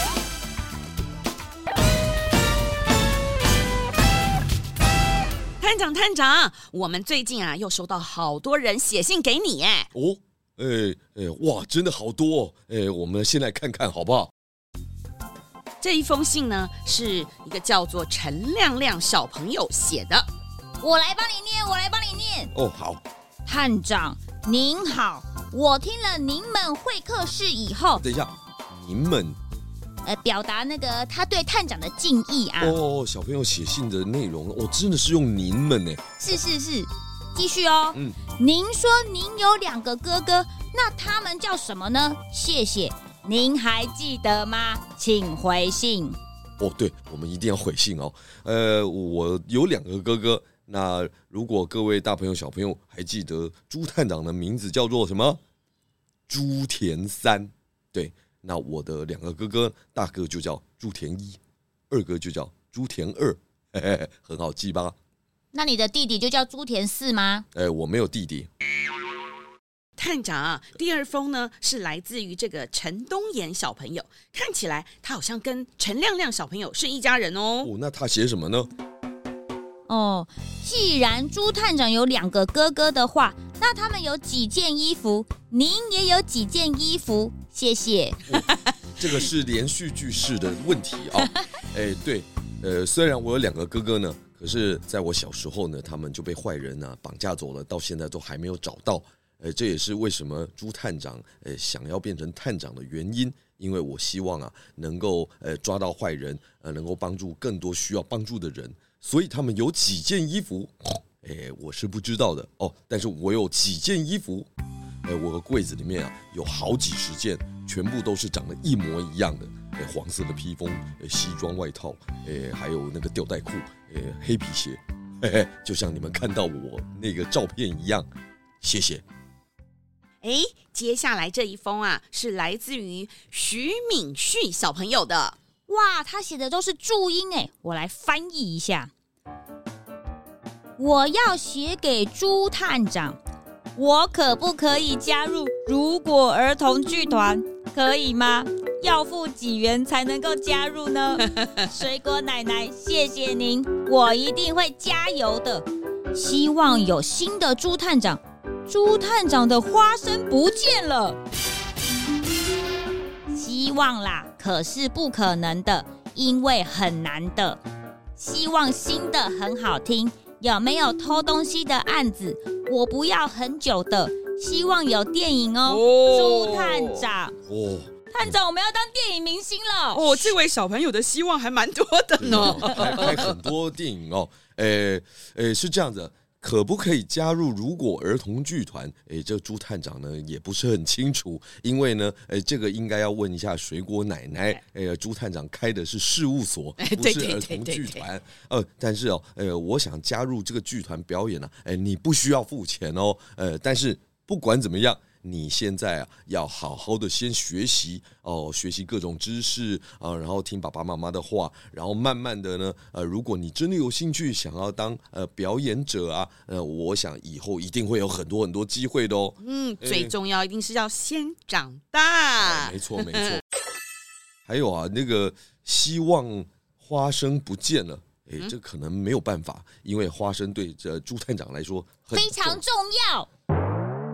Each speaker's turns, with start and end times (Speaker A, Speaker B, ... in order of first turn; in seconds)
Speaker A: 5.6-9.9, 15.8-20.3, 70.0-77.7, 130.2-135.4, 175.7-177.1, 179.9-183.3, 196.8-198.1, 219.4-223.4
Speaker B: 9.9-14.3, 22.5-23.0, 28.0-29.4, 32.6-36.0, 46.6-55.4, 56.3-61.4, 61.9-65.0, 67.5-68.5, 77.6-78.7, 88.3-114.5, 115.0-128.1, 128.6-129.0, 177.5-178.3, 182.2-220.1, 222.4-223.4, 224.5-232.6
Speaker C: 20.8-22.5, 23.5-28.0, 30.0-32.8, 36.2-46.2, 65.5-67.5, 79.9-88.2, 135.7-138.9, 140.8-143.2, 143.8-161.2, 163.3-167.6, 168.2-177.3, 178.1-180.3, 232.1-233.3